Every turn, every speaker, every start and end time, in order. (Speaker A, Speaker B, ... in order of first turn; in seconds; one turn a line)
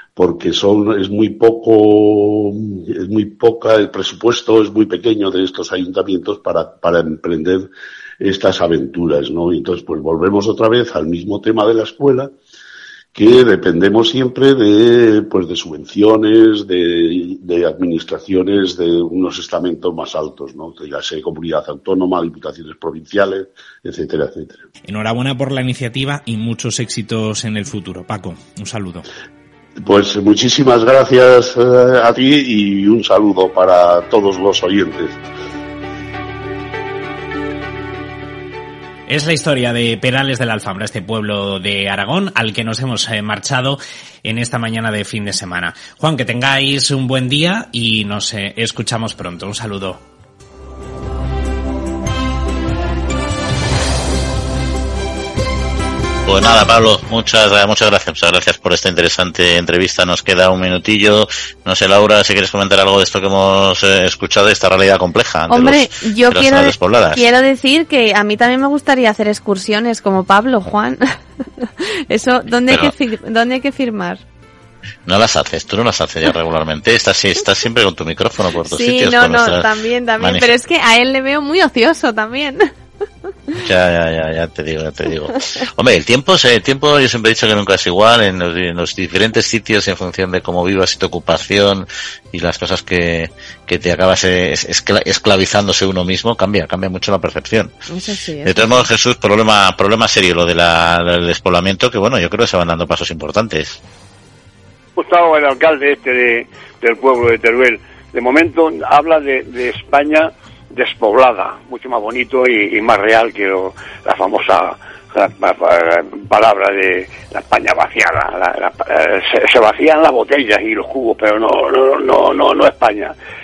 Speaker A: 0.1-12.3
Speaker A: 13.1-24.6
Speaker B: 24.8-29.0
Speaker A: 29.8-35.2
Speaker B: 39.1-50.0
Speaker C: 56.2-67.2
Speaker D: 65.5-71.1
Speaker D: 71.8-74.2
Speaker C: 75.0-80.6
Speaker D: 78.6-82.7
Speaker C: 83.6-97.7
Speaker D: 97.9-98.9
Speaker C: 98.4-103.8
Speaker E: 105.0-123.1